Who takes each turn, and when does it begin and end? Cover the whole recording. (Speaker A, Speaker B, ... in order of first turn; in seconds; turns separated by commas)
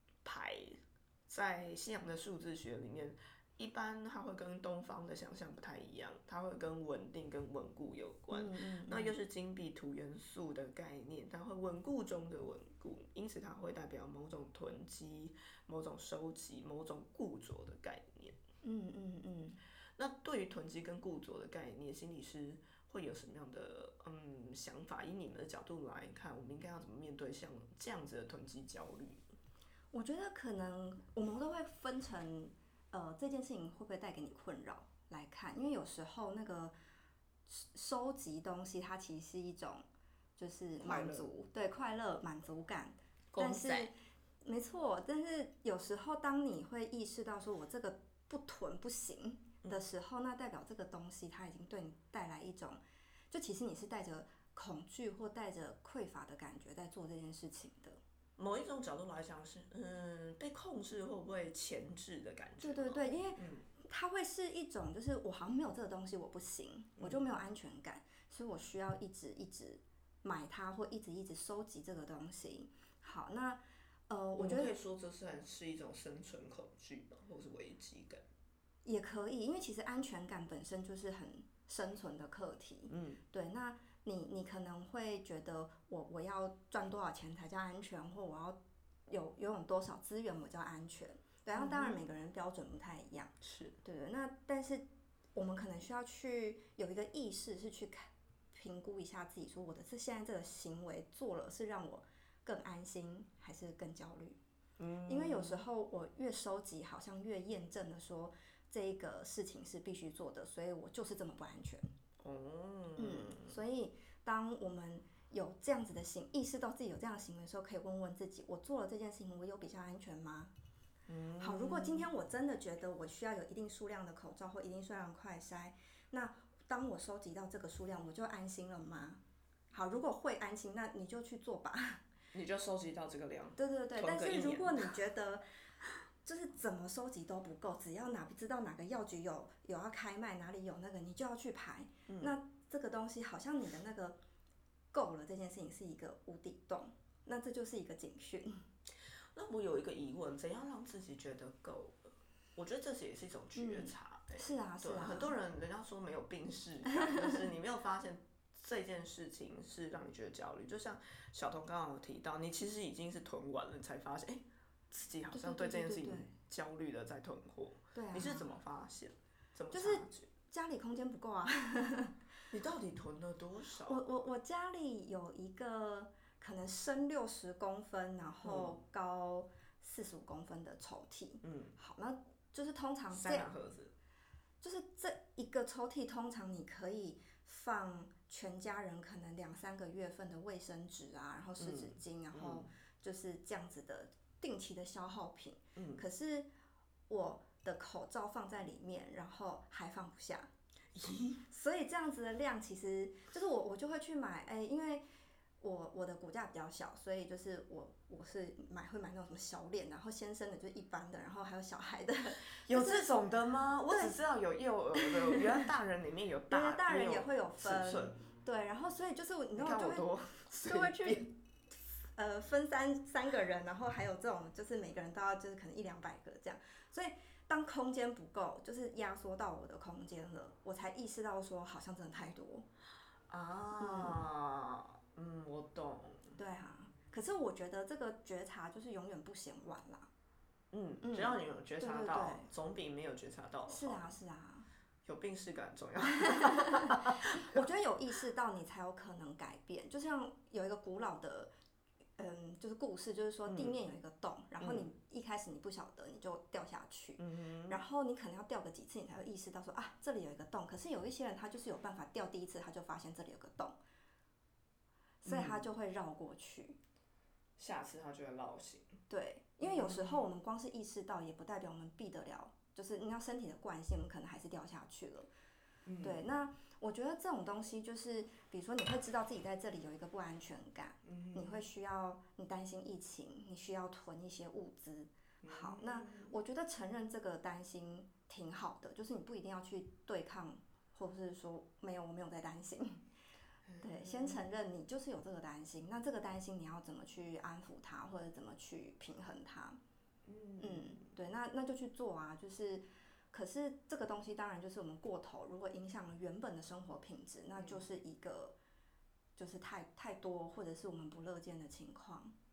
Speaker A: 0.2-18.4, Speaker B: 8.3-9.2, Speaker B: 18.6-19.6, Speaker A: 20.0-29.2, Speaker B: 29.9-36.8, Speaker B: 37.5-39.9, Speaker B: 40.4-58.0, Speaker A: 40.8-41.3, Speaker A: 43.3-43.9, Speaker A: 58.4-63.7, Speaker B: 62.6-74.7, Speaker A: 67.0-67.3, Speaker A: 74.4-78.2, Speaker B: 78.8-93.3, Speaker A: 82.9-83.2, Speaker A: 91.5-92.0, Speaker A: 93.4-93.8, Speaker B: 93.8-104.4, Speaker A: 104.8-105.7, Speaker B: 105.1-111.9, Speaker A: 112.2-113.6, Speaker B: 113.0-120.5, Speaker A: 121.1-122.1, Speaker B: 121.4-129.2, Speaker B: 129.7-132.0, Speaker A: 132.3-135.0, Speaker B: 133.6-135.4, Speaker B: 136.2-144.2, Speaker A: 142.1-142.3, Speaker B: 144.9-148.6, Speaker A: 149.3-152.0, Speaker A: 152.6-170.3, Speaker B: 153.6-155.4, Speaker B: 165.3-166.3, Speaker B: 167.9-168.6, Speaker B: 169.7-172.2, Speaker A: 172.5-174.1, Speaker B: 173.9-183.5, Speaker A: 178.4-178.8, Speaker A: 181.4-181.8, Speaker A: 183.1-183.9, Speaker B: 184.6-196.5, Speaker A: 191.6-192.7, Speaker A: 195.8-196.1, Speaker B: 197.1-200.5, Speaker A: 200.9-201.4, Speaker B: 201.5-205.1, Speaker B: 205.6-213.2, Speaker A: 212.6-218.2, Speaker B: 213.9-214.2, Speaker B: 215.0-215.7, Speaker B: 216.5-220.1, Speaker A: 219.6-221.3, Speaker B: 220.7-221.3, Speaker B: 222.2-232.7, Speaker A: 233.3-236.4, Speaker B: 233.8-234.2, Speaker B: 236.4-240.1, Speaker A: 240.7-244.1, Speaker B: 241.0-242.5, Speaker B: 243.7-244.7, Speaker A: 245.1-247.7, Speaker B: 246.4-251.5, Speaker B: 252.2-263.8, Speaker A: 253.5-253.8, Speaker A: 254.6-254.9, Speaker A: 257.2-257.8, Speaker B: 265.2-266.8, Speaker A: 265.3-265.7, Speaker A: 267.6-268.9, Speaker B: 269.1-275.3, Speaker A: 269.6-270.3, Speaker A: 275.9-276.2, Speaker B: 276.0-293.0, Speaker A: 281.0-281.6, Speaker A: 285.4-286.4, Speaker A: 293.6-294.5, Speaker B: 293.8-299.8, Speaker A: 300.3-301.1, Speaker B: 300.6-308.6, Speaker A: 307.6-307.9, Speaker B: 309.4-312.3